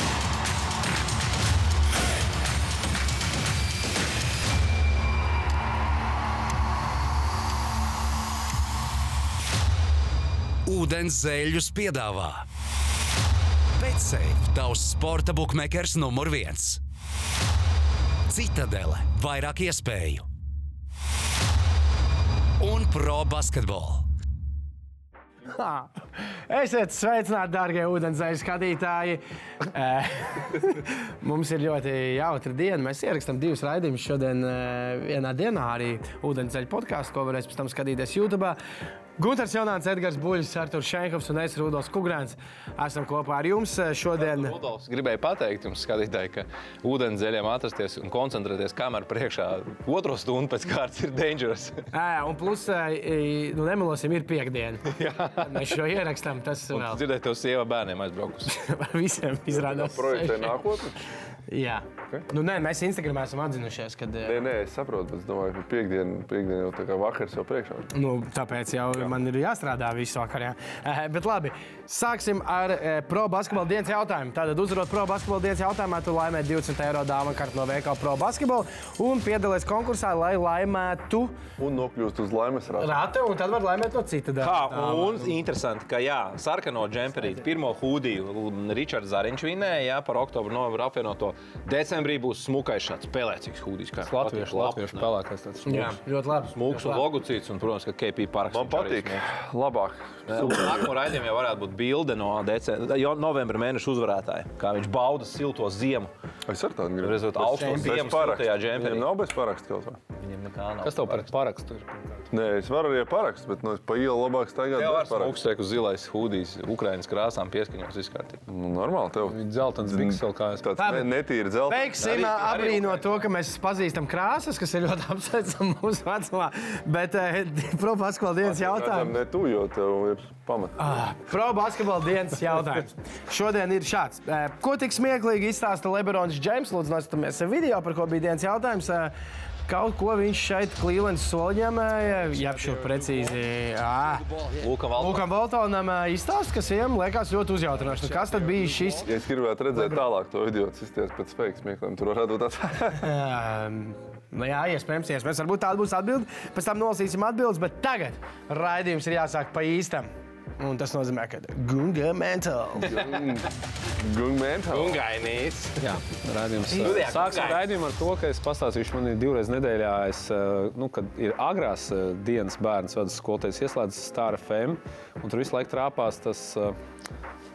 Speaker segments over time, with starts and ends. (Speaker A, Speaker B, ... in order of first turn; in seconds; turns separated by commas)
Speaker A: 10.7-12.4, Speaker A: 13.8-16.8, Speaker A: 18.3-20.2, Speaker A: 22.6-24.0, Speaker B: 25.5-25.9, Speaker B: 26.5-38.6, Speaker B: 39.2-44.5, Speaker C: 44.2-51.9, Speaker B: 51.9-57.0, Speaker C: 54.9-55.8, Speaker C: 56.7-58.5, Speaker B: 58.5-60.6, Speaker D: 59.5-61.0, Speaker B: 61.5-64.4, Speaker D: 64.2-67.9, Speaker B: 67.9-81.3, Speaker D: 81.6-82.9, Speaker B: 82.8-85.3, Speaker C: 84.4-95.1, Speaker E: 94.0-96.0, Speaker B: 95.7-97.0, Speaker C: 96.5-99.2, Speaker D: 98.5-100.9, Speaker C: 100.3-106.1, Speaker D: 106.5-110.0, Speaker C: 107.0-109.1, Speaker B: 107.5-108.0, Speaker C: 110.2-111.3, Speaker E: 110.8-112.2, Speaker D: 112.3-115.4, Speaker C: 114.7-118.4, Speaker D: 118.5-122.0, Speaker E: 119.2-120.7, Speaker B: 120.8-121.1, Speaker B: 121.7-129.1, Speaker C: 122.0-123.2, Speaker D: 128.4-131.0, Speaker B: 130.8-139.1, Speaker B: 139.7-144.3, Speaker E: 142.4-142.9, Speaker C: 144.6-145.3, Speaker B: 144.9-149.1, Speaker D: 149.0-153.0, Speaker B: 149.7-150.0, Speaker B: 152.8-163.0, Speaker D: 162.8-165.0, Speaker C: 162.9-163.4, Speaker C: 164.7-166.0, Speaker E: 165.8-176.8, Speaker C: 166.7-167.7